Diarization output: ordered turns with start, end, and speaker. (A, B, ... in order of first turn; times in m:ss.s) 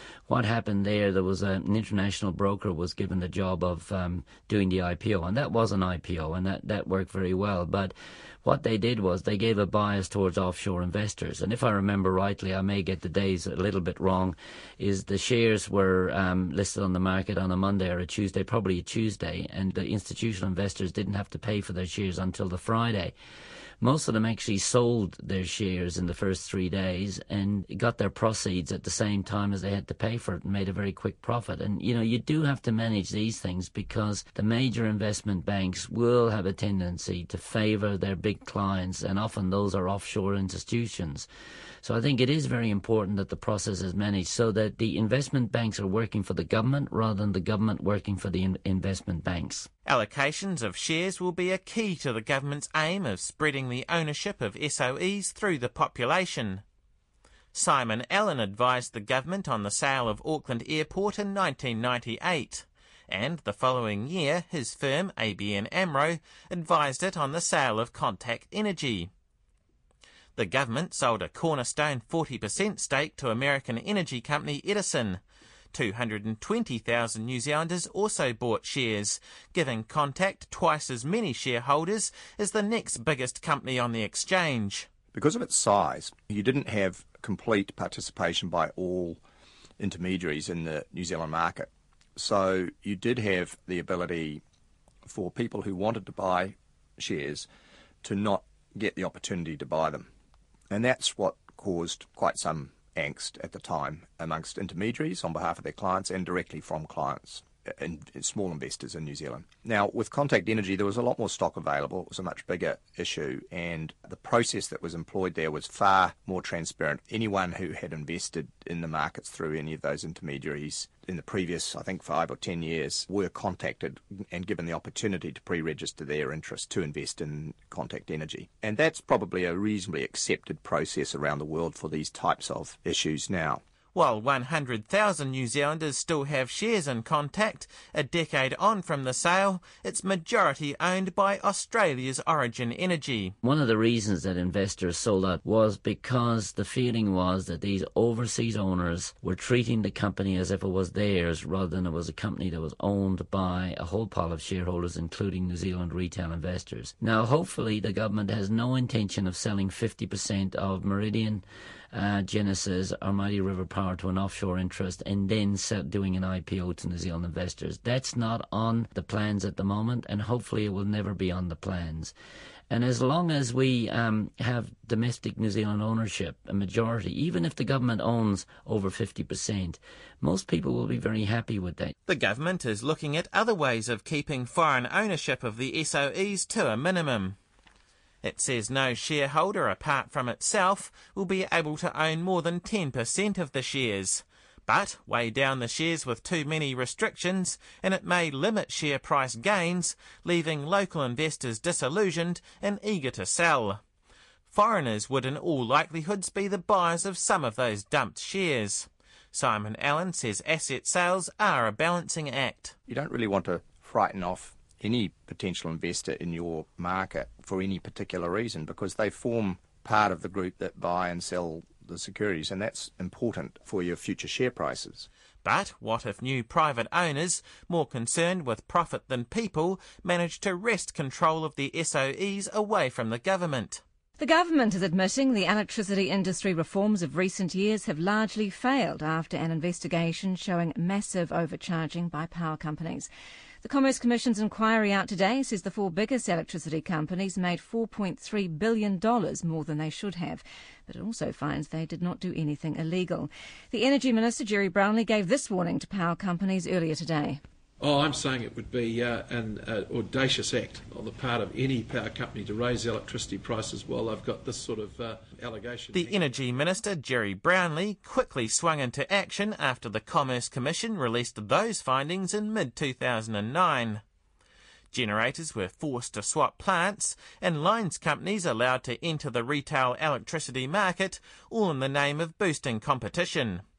0:00.3-0:23.1 A
0:23.8-0:41.3 A
0:41.8-0:49.7 A
0:49.9-0:56.6 B
0:57.5-1:09.1 B
1:10.4-1:15.2 B
1:15.7-1:24.9 B
1:25.1-1:29.2 C
1:29.8-1:34.4 C
1:35.0-1:37.5 C
1:38.0-1:40.1 C
1:40.7-2:13.6 C
2:13.9-2:23.3 B
2:23.4-2:52.1 A
2:52.7-3:02.0 A
3:02.1-3:07.4 B
3:08.2-3:23.8 B
3:24.5-3:32.8 B
3:32.9-3:45.1 C
3:45.4-3:53.8 B
3:54.2-4:03.1 D
4:03.6-4:17.4 D
4:17.8-4:26.4 E
4:25.9-4:34.0 B
4:34.9-4:43.6 B